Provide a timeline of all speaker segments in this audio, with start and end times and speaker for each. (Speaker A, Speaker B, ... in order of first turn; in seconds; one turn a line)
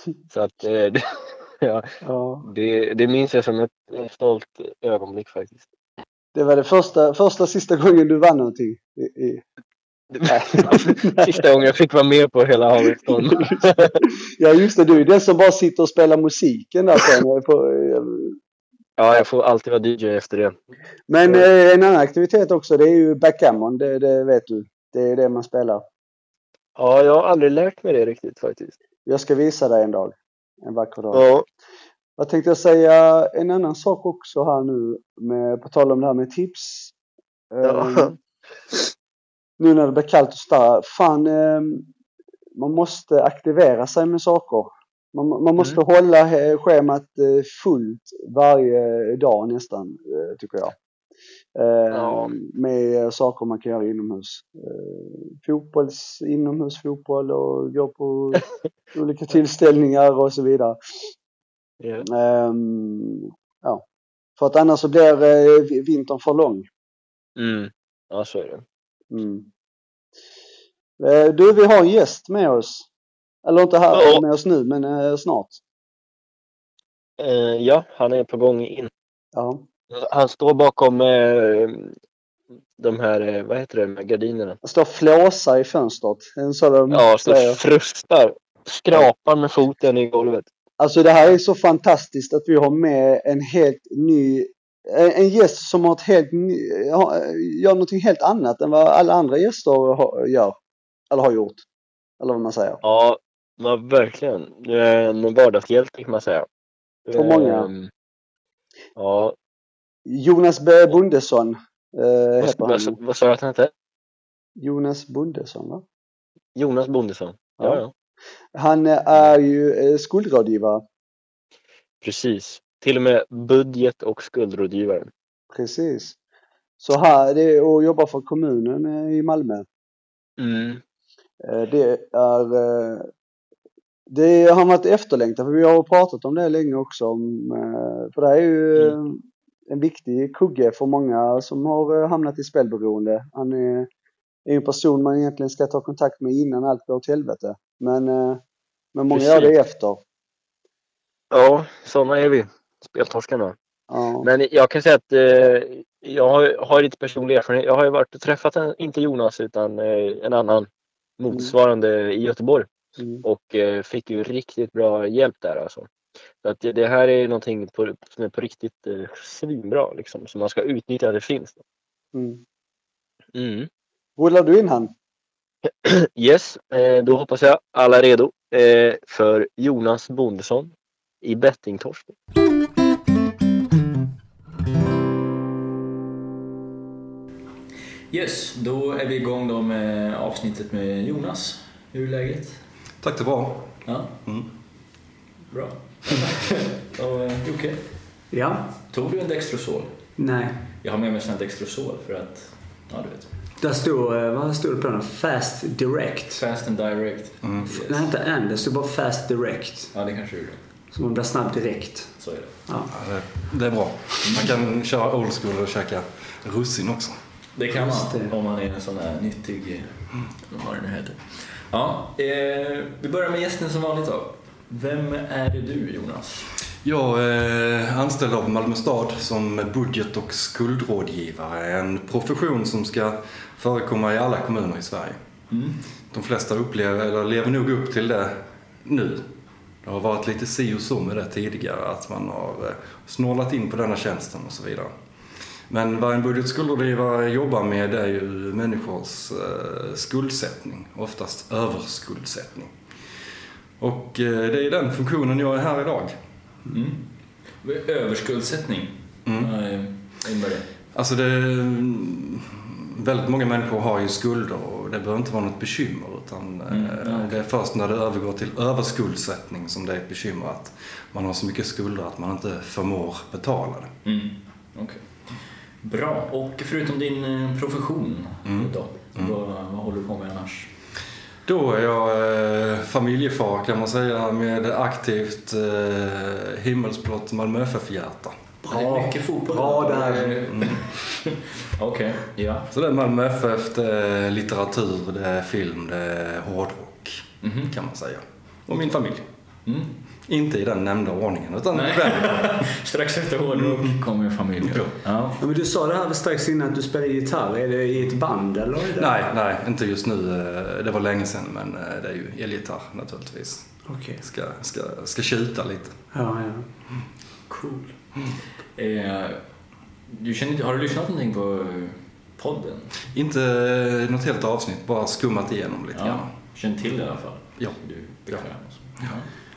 Speaker A: 0.3-1.9
Speaker B: 2.1-2.4
Speaker A: 2.4-5.7
Speaker C: 6.4-9.4
Speaker A: 10.1-14.0
Speaker C: 10.3-10.9
Speaker C: 14.4-18.0
Speaker A: 19.0-20.5
Speaker C: 21.1-25.8
Speaker A: 26.8-28.8
Speaker C: 29.1-30.2
Speaker C: 30.7-31.2
Speaker A: 31.1-31.5
Speaker C: 32.2-36.9
Speaker C: 37.6-38.1
Speaker A: 37.6-38.1
Speaker C: 39.6-41.6
Speaker C: 42.6-50.7
Speaker C: 51.6-58.4
Speaker A: 51.9-52.3
Speaker C: 59.0-60.7
Speaker A: 61.8-62.0
Speaker C: 62.1-63.0
Speaker C: 64.4-66.6
Speaker A: 67.4-68.6
Speaker C: 71.0-72.8
Speaker C: 73.5-75.6
Speaker A: 73.9-74.2
Speaker A: 77.2-78.9
Speaker A: 79.9-81.9
Speaker A: 82.8-84.6
Speaker C: 84.7-87.6
Speaker A: 86.9-90.5
Speaker C: 90.8-94.5
Speaker C: 95.0-100.5
Speaker C: 101.1-101.7
Speaker C: 102.2-102.8
Speaker A: 102.8-106.5
Speaker A: 107.1-107.9
Speaker C: 107.2-107.7
Speaker A: 109.0-109.3
Speaker C: 110.2-113.0
Speaker A: 112.4-113.7
Speaker C: 114.6-115.8
Speaker A: 116.5-117.9
Speaker C: 118.6-120.8
Speaker A: 122.0-125.1
Speaker C: 125.5-126.2
Speaker C: 126.8-129.6
Speaker A: 130.4-130.8
Speaker C: 131.5-133.0
Speaker C: 134.2-139.2
Speaker C: 139.7-143.9
Speaker C: 144.5-148.4
Speaker C: 149.0-150.0
Speaker A: 149.1-149.5
Speaker A: 151.3-153.5
Speaker C: 153.9-154.2
Speaker A: 154.2-160.7
Speaker A: 161.2-162.7
Speaker A: 163.2-165.9
Speaker A: 166.4-171.6
Speaker A: 173.3-173.7
Speaker C: 174.2-174.9
Speaker A: 175.8-182.1
Speaker D: 188.1-192.6
Speaker E: 193.0-194.5
Speaker D: 193.8-194.1
Speaker D: 195.5-198.1
Speaker B: 198.3-198.8
Speaker D: 198.9-200.0
Speaker B: 200.2-200.6
Speaker D: 200.8-203.3
Speaker B: 203.6-206.4
Speaker D: 206.3-208.1
Speaker B: 207.7-209.9
Speaker D: 209.9-210.6
Speaker B: 210.9-212.9
Speaker D: 212.2-212.6
Speaker E: 212.9-217.2
Speaker D: 214.2-214.5
Speaker D: 217.5-226.5
Speaker B: 217.7-218.3
Speaker E: 226.8-235.2
Speaker D: 235.5-235.8
Speaker E: 236.1-239.2
Speaker E: 239.8-244.9
Speaker E: 245.7-252.7
Speaker E: 253.8-256.1
Speaker D: 256.7-257.1
Speaker D: 257.6-260.7
Speaker E: 259.2-259.5
Speaker E: 260.9-273.9
Speaker D: 266.7-267.4
Speaker D: 274.0-275.1
Speaker D: 275.8-280.7
Speaker E: 278.5-279.3
Speaker E: 281.5-288.3
Speaker B: 288.6-290.7
Speaker D: 288.7-292.7
Speaker E: 292.7-299.2
Speaker D: 297.4-297.7
Speaker D: 299.7-299.9
Speaker E: 300.2-302.6
Speaker D: 301.7-305.4
Speaker E: 303.6-304.0
Speaker E: 304.6-304.9
Speaker B: 305.4-309.1
Speaker E: 309.0-313.7
Speaker B: 313.9-314.2
Speaker E: 314.2-316.0
Speaker B: 316.1-316.7
Speaker D: 317.5-317.9
Speaker D: 318.8-319.4
Speaker D: 320.1-322.9
Speaker E: 323.1-326.3
Speaker D: 325.9-329.3